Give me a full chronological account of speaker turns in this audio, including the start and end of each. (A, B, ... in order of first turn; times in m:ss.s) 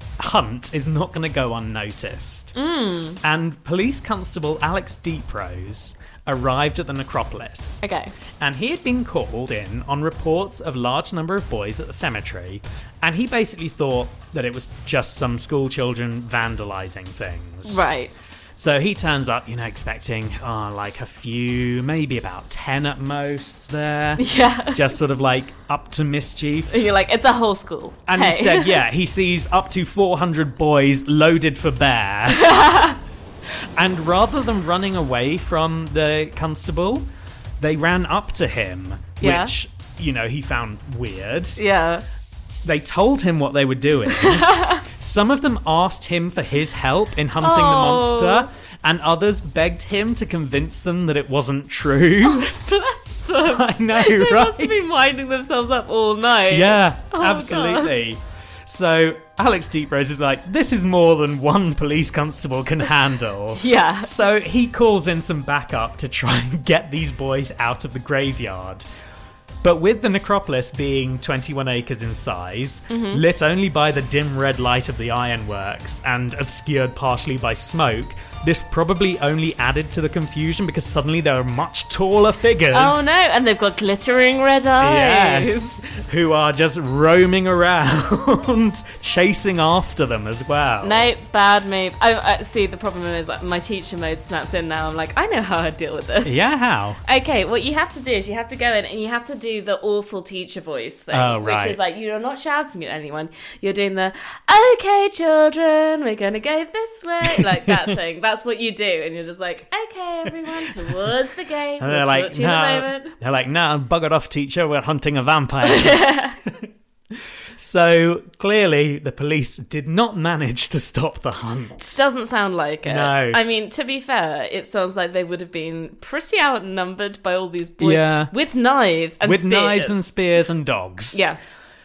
0:00.2-0:02.6 A
0:02.6-0:03.2 B
0:03.2-0:07.8 A
0:07.8-0:08.1 B
0:08.4-0:17.9 A
0:17.6-0:18.1 B
0:18.6-0:26.7 A
0:24.2-0:24.8 B
0:26.7-0:28.8 B
0:28.1-0:32.6 A
0:32.3-0:33.0 B
0:33.8-0:37.1 A
0:37.6-0:41.6 A
0:39.2-0:39.5 B
0:41.6-0:42.0 B
0:42.6-0:52.5 A
0:44.1-0:44.8 B
0:47.4-0:48.5 B
0:52.2-0:57.9 B
0:53.4-0:54.8 A
0:56.5-1:08.9 A
1:03.6-1:04.1 B
1:09.6-1:23.2 A
1:12.9-1:13.2 B
1:22.7-1:25.8 B
1:24.8-1:31.1 A
1:30.8-1:36.4 B
1:36.2-1:37.0 A
1:37.0-1:53.1 B
1:41.1-1:41.8 A
1:47.2-1:47.9 A
1:51.8-2:02.0 A
1:55.6-1:56.4 B
2:01.9-2:10.0 B
2:02.8-2:03.4 A
2:07.8-2:08.3 A
2:09.2-2:11.2 A
2:11.1-2:11.4 B